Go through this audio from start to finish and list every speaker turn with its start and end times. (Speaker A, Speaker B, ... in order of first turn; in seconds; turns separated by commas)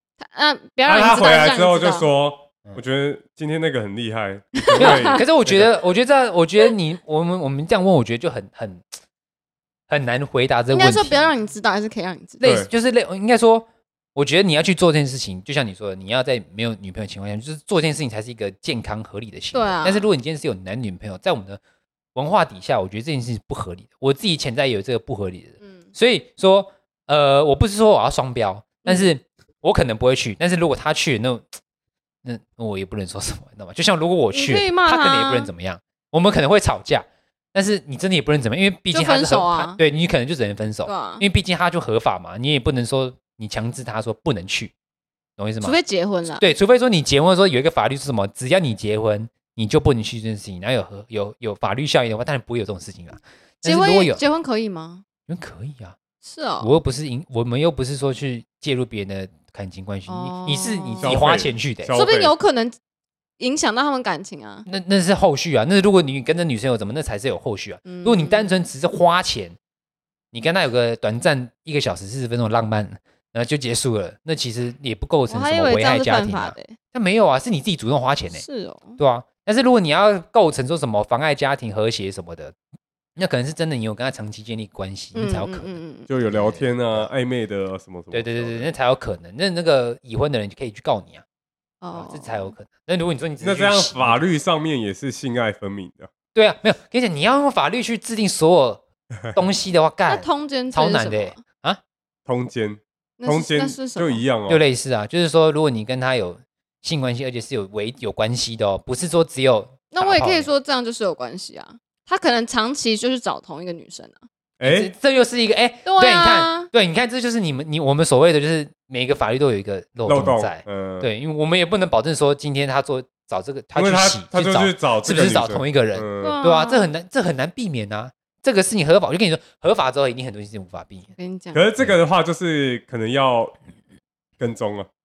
Speaker A: 0.2-2.1, Speaker B: 0.8-5.7, Speaker A: 4.6-5.2, Speaker C: 4.8-8.9, Speaker C: 9.9-11.3, Speaker A: 10.7-12.4, Speaker C: 12.4-21.6, Speaker B: 12.4-12.7, Speaker A: 19.5-20.1, Speaker C: 22.1-31.5, Speaker A: 25.6-25.9, Speaker A: 28.8-29.1, Speaker C: 32.2-44.7, Speaker A: 34.3-35.5, Speaker A: 38.9-39.8, Speaker A: 40.8-41.2, Speaker C: 45.4-45.8, Speaker A: 45.6-46.5, Speaker C: 46.4-54.2, Speaker A: 53.6-55.0, Speaker C: 55.3-56.0, Speaker A: 56.2-56.7, Speaker C: 56.6-62.0, Speaker A: 60.1-61.2, Speaker B: 61.0-62.3, Speaker A: 61.9-62.8, Speaker A: 63.4-64.7, Speaker C: 64.7-69.6, Speaker A: 67.8-68.6, Speaker C: 70.3-78.4, Speaker A: 75.3-76.8, Speaker A: 78.3-79.0, Speaker C: 79.0-82.5, Speaker C: 83.2-87.1, Speaker A: 85.1-86.1, Speaker B: 86.1-88.7, Speaker C: 88.1-91.2, Speaker A: 91.8-92.5, Speaker C: 91.9-94.2, Speaker B: 93.4-96.1, Speaker C: 96.3-101.8, Speaker A: 100.1-101.4, Speaker B: 102.2-104.6, Speaker A: 103.2-104.2, Speaker C: 104.5-110.5, Speaker A: 109.9-114.2, Speaker B: 114.6-114.9, Speaker C: 114.6-131.1, Speaker A: 115.8-116.7, Speaker B: 120.0-121.1, Speaker B: 123.7-126.3, Speaker A: 126.2-126.9, Speaker A: 131.2-131.6, Speaker B: 131.5-133.6, Speaker B: 134.4-134.9